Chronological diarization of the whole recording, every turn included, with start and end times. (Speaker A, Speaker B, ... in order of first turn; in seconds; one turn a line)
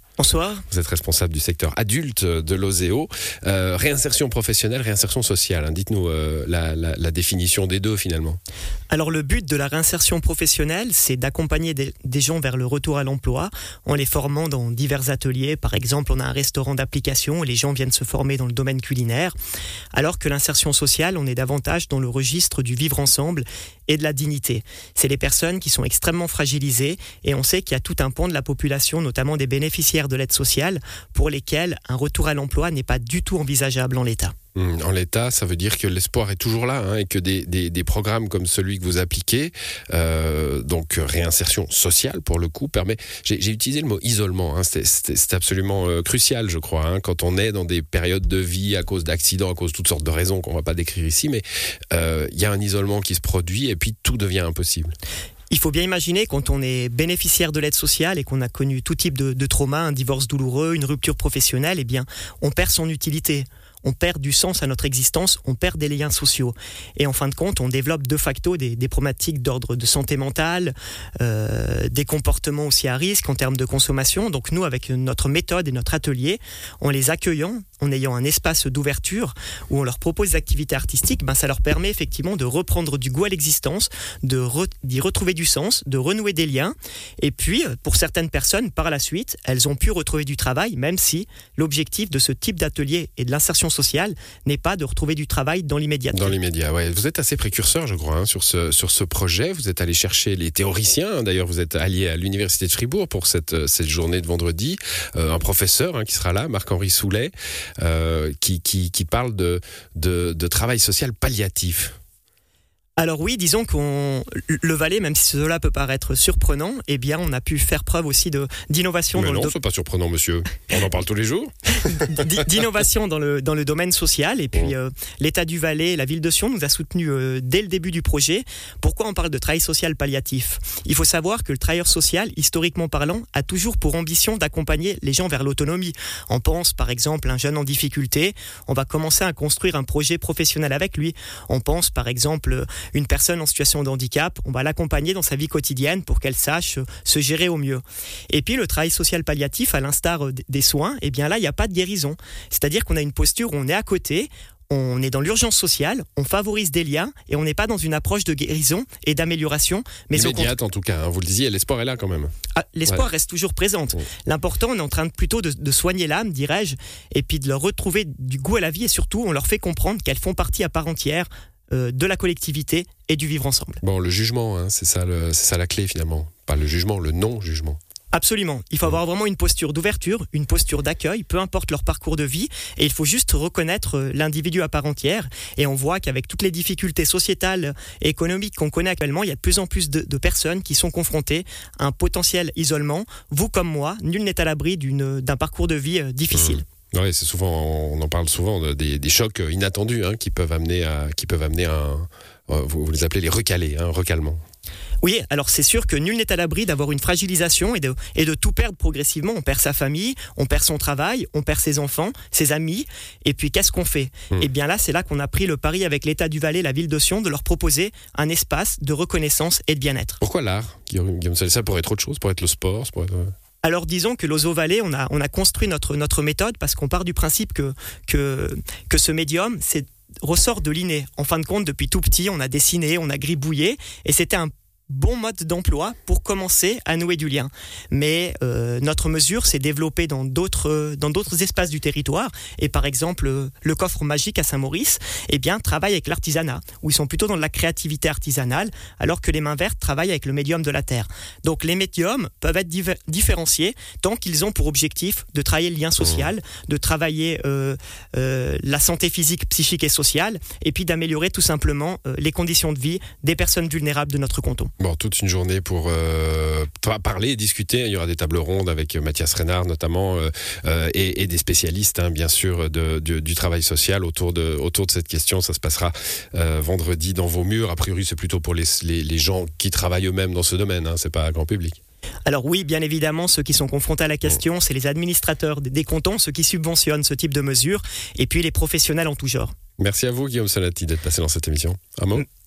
Speaker A: 0.2-0.6
Speaker B: 0.7-8.4
Speaker A: 8.9-19.4
Speaker A: 19.9-34.3
Speaker B: 34.5-54.9
Speaker A: 55.5-96.3
Speaker B: 96.1-111.9
Speaker A: 113.0-119.5
Speaker B: 119.2-122.2
Speaker A: 122.1-160.6
Speaker B: 160.1-162.3
Speaker A: 162.6-173.8
Speaker B: 173.8-177.8
Speaker A: 178.1-196.7
Speaker B: 196.3-204.4
Speaker A: 205.0-220.2
Speaker B: 220.2-223.3
Speaker A: 223.6-264.7
Speaker B: 264.8-281.8
Speaker A: 282.3-289.5
Speaker B: 289.8-292.2